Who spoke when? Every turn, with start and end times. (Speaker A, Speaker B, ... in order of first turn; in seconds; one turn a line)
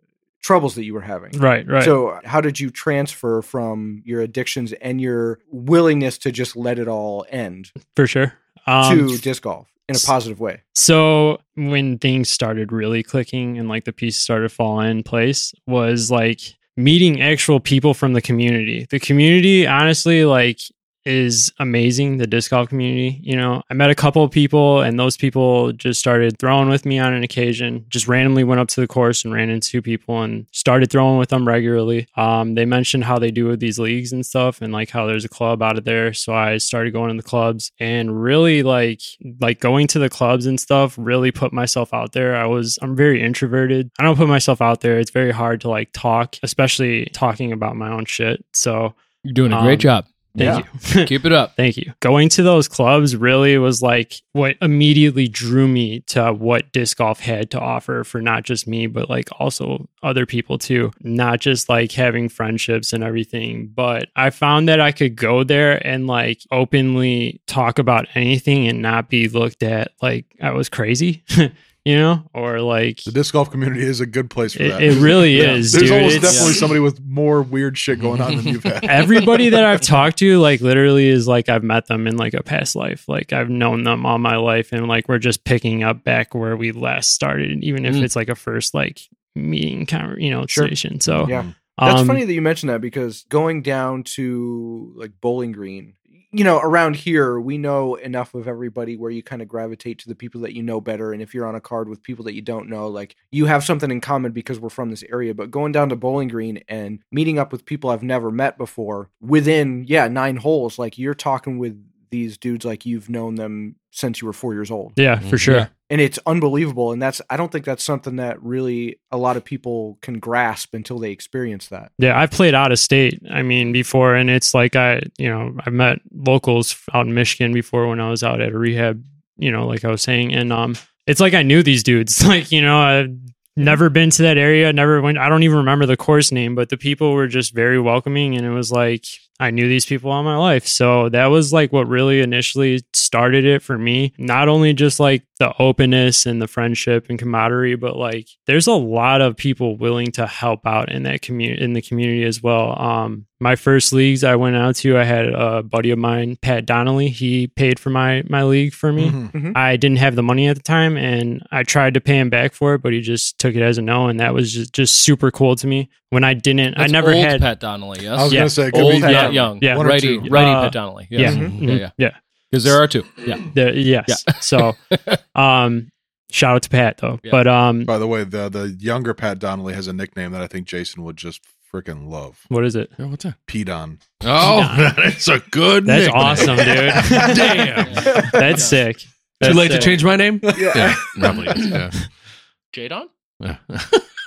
Speaker A: 0.4-7.7
Speaker B: 1.3-1.9
Speaker B: 7.9-9.2
Speaker A: 8.8-10.6
Speaker B: 10.7-49.0
Speaker C: 49.2-51.5
Speaker B: 49.5-73.1
Speaker A: 50.4-50.6
Speaker D: 73.0-79.5
Speaker B: 74.5-76.6
Speaker C: 75.4-76.6
Speaker B: 78.8-92.2
Speaker A: 90.5-115.0
Speaker D: 91.0-91.5
Speaker B: 115.0-115.7
Speaker E: 115.2-115.7
Speaker A: 115.9-121.9
Speaker B: 122.0-167.5
Speaker D: 158.9-159.3
Speaker A: 159.3-159.6
Speaker C: 166.8-171.9
Speaker D: 168.1-170.3
Speaker B: 168.3-168.7
Speaker A: 168.7-169.5
Speaker B: 169.2-172.8
Speaker A: 171.2-171.6
Speaker C: 172.5-173.5
Speaker B: 173.4-174.8
Speaker C: 174.1-175.2
Speaker B: 175.3-177.9
Speaker D: 177.8-182.4
Speaker B: 182.5-182.9
Speaker E: 183.0-183.4
Speaker D: 183.5-184.1
Speaker E: 184.2-188.4
Speaker B: 184.4-184.9
Speaker B: 185.8-190.0
Speaker C: 187.8-188.8
Speaker E: 189.4-192.1
Speaker D: 190.4-191.0
Speaker A: 190.5-191.6
Speaker C: 192.7-193.1
Speaker E: 193.4-194.0